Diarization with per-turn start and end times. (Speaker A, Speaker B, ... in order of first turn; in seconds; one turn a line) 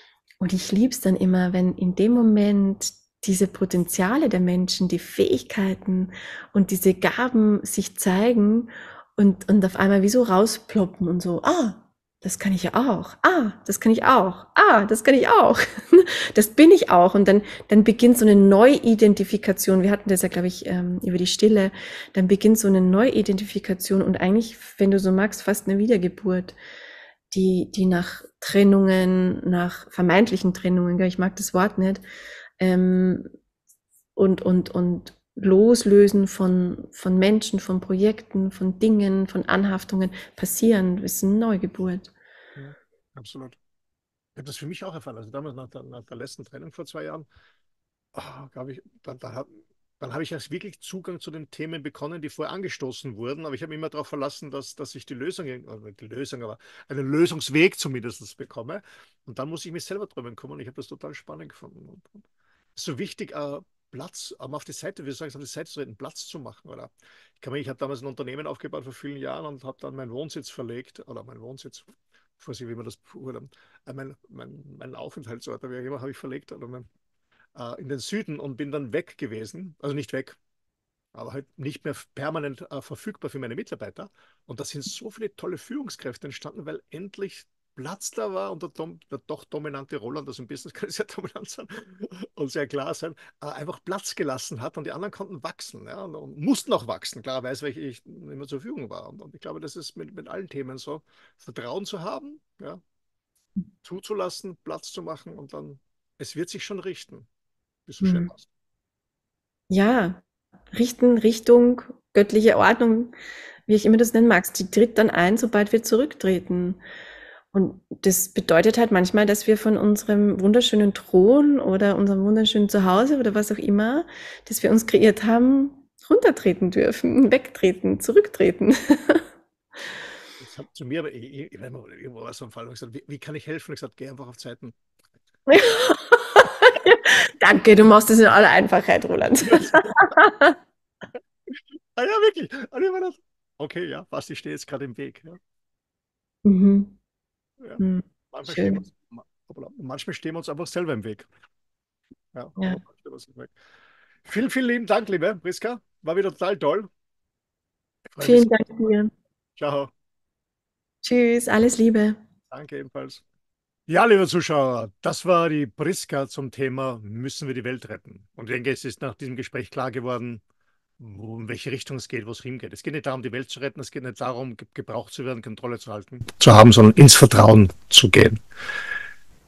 Speaker A: 0.4-26.6
Speaker A: 27.3-32.0
Speaker A: 32.6-33.3
Speaker A: 34.2-42.1
Speaker B: 42.6-43.6
Speaker B: 44.4-47.3
Speaker B: 48.1-76.9
Speaker B: 77.5-80.4
Speaker B: 81.1-102.8
Speaker B: 103.8-107.3
Speaker B: 107.9-108.5
Speaker A: 108.0-108.3
Speaker A: 109.7-110.2
Speaker A: 110.7-113.1
Speaker A: 113.7-116.8
Speaker A: 117.5-129.2
Speaker B: 130.4-134.8
Speaker A: 135.5-140.6
Speaker B: 139.4-140.0
Speaker B: 141.5-145.4
Speaker A: 146.4-146.9
Speaker B: 147.6-151.3
Speaker A: 147.8-148.8
Speaker B: 152.3-153.5
Speaker B: 154.2-156.9
Speaker B: 158.1-158.7
Speaker A: 158.2-159.1
Speaker B: 159.6-159.9
Speaker A: 161.0-162.2
Speaker B: 162.5-163.2
Speaker B: 163.9-170.4
Speaker B: 171.0-178.4